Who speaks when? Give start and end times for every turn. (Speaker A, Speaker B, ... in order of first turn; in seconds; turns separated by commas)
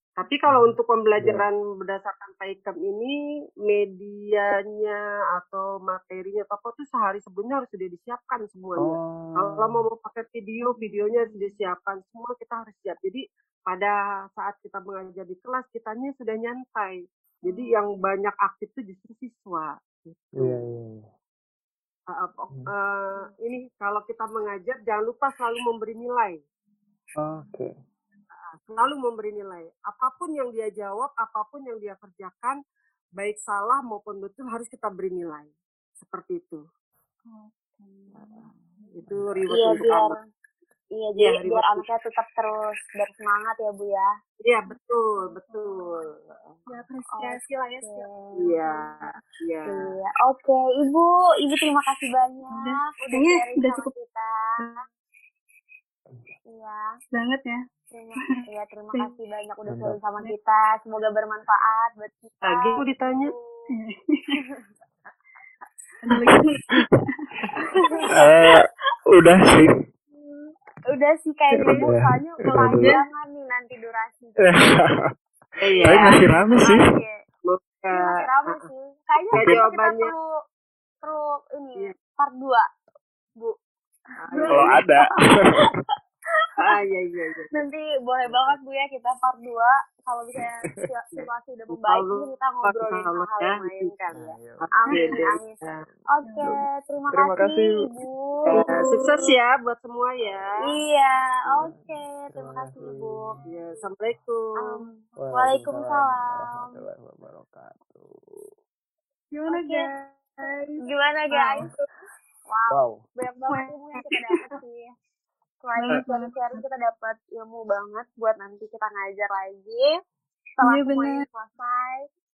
Speaker A: 0.2-20.6, Speaker B: 0.5-1.4, Speaker B: 8.8-9.8, Speaker C: 10.7-11.5, Speaker B: 20.4-21.1, Speaker A: 22.1-26.4, Speaker B: 27.2-27.7, Speaker A: 28.4-32.6, Speaker A: 33.2-36.6, Speaker C: 37.3-38.5, Speaker A: 38.9-40.2, Speaker B: 39.1-39.4, Speaker D: 39.5-40.2, Speaker D: 41.0-44.1, Speaker A: 41.2-41.8, Speaker A: 44.4-46.8, Speaker C: 44.7-46.0, Speaker C: 46.7-49.2, Speaker D: 47.1-48.5, Speaker A: 48.4-49.9, Speaker D: 49.6-54.3, Speaker C: 52.5-53.9, Speaker D: 56.5-56.8, Speaker C: 57.1-57.6, Speaker D: 57.9-63.7, Speaker B: 59.7-60.0, Speaker A: 62.4-63.3, Speaker C: 63.7-64.3, Speaker C: 66.0-68.1, Speaker D: 67.6-68.1, Speaker B: 68.1-69.7, Speaker D: 70.9-74.6, Speaker B: 71.5-72.9, Speaker C: 72.6-73.0, Speaker B: 74.4-75.1, Speaker A: 75.6-76.2, Speaker D: 75.8-77.2, Speaker B: 75.8-76.8, Speaker A: 77.5-78.6, Speaker D: 77.9-80.2, Speaker A: 79.3-80.1, Speaker B: 79.3-79.6, Speaker D: 81.0-82.7, Speaker A: 84.2-84.8, Speaker D: 84.3-85.0, Speaker C: 84.3-84.7, Speaker B: 84.5-85.6, Speaker D: 86.4-86.7, Speaker A: 86.6-87.6, Speaker D: 87.5-98.6, Speaker A: 91.2-93.9, Speaker B: 94.1-94.7, Speaker A: 94.7-95.8, Speaker C: 94.9-95.2, Speaker C: 96.2-96.5, Speaker B: 97.1-97.8, Speaker A: 98.5-100.6, Speaker C: 98.5-99.3, Speaker D: 100.6-103.4, Speaker B: 101.6-103.4, Speaker A: 103.4-104.8, Speaker D: 104.6-106.8, Speaker B: 105.2-108.5, Speaker C: 109.3-111.7, Speaker D: 109.5-109.8, Speaker D: 110.8-111.7, Speaker D: 112.5-114.9, Speaker B: 112.7-113.0, Speaker C: 113.5-114.5, Speaker D: 115.6-119.9, Speaker C: 115.8-116.6, Speaker D: 120.6-122.0, Speaker C: 120.6-121.2